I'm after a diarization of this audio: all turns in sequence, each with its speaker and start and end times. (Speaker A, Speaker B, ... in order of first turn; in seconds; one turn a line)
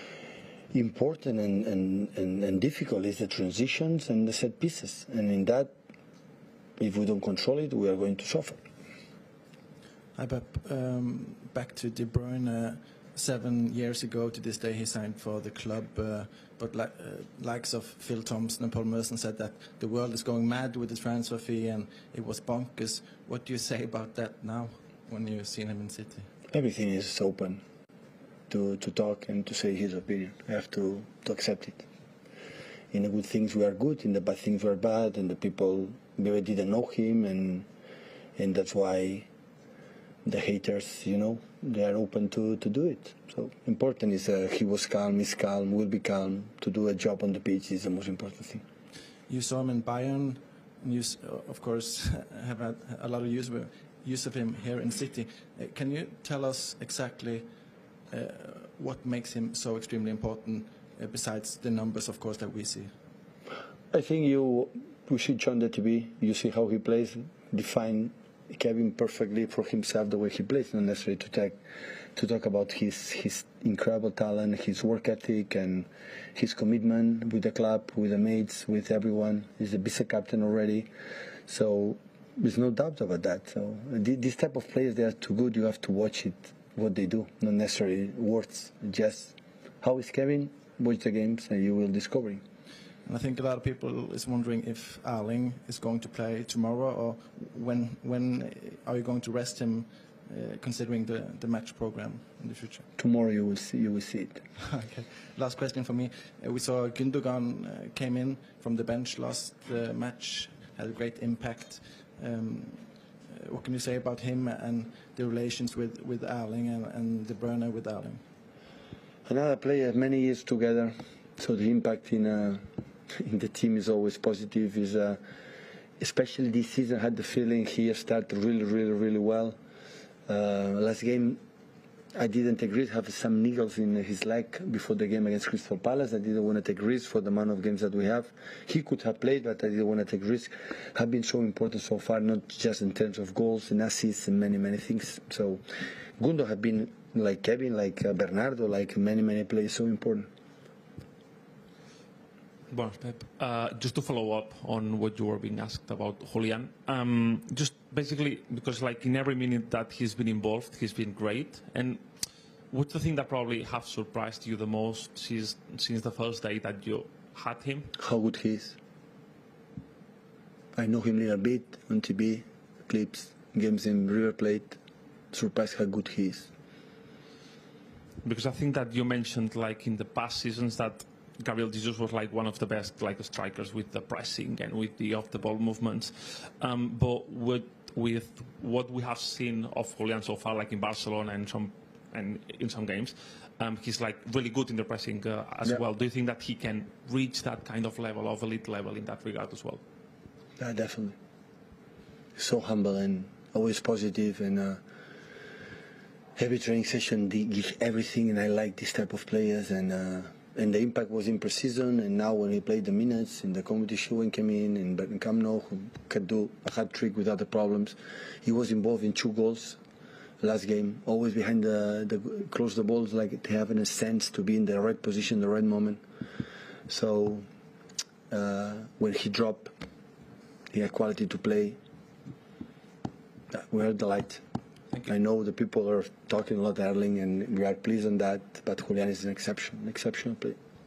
Speaker A: 0.7-5.7
Speaker A: 6.8-8.6
Speaker B: 10.1-26.3
Speaker A: 26.5-27.6
Speaker A: 28.5-31.9
Speaker A: 32.9-37.7
Speaker A: 38.4-39.3
Speaker A: 40.2-48.6
Speaker B: 49.3-57.5
Speaker B: 58.1-62.9
Speaker A: 63.9-71.6
Speaker A: 72.2-80.9
Speaker A: 81.5-92.4
Speaker B: 93.0-102.9
Speaker A: 103.0-104.4
Speaker B: 104.7-118.2
Speaker A: 119.3-125.2
Speaker A: 126.0-129.6
Speaker A: 130.3-131.4
Speaker A: 132.1-145.6
Speaker A: 146.2-150.3
Speaker C: 152.7-162.0
Speaker C: 162.7-167.9
Speaker A: 168.0-168.8
Speaker A: 170.7-174.8
Speaker A: 175.3-176.5
Speaker C: 178.2-199.8
Speaker A: 200.6-201.2
Speaker A: 202.4-204.8
Speaker A: 206.4-219.8
Speaker A: 220.4-226.0
Speaker A: 226.9-227.5
Speaker A: 228.3-229.7
Speaker A: 230.7-231.8
Speaker A: 233.5-234.4
Speaker A: 235.1-240.6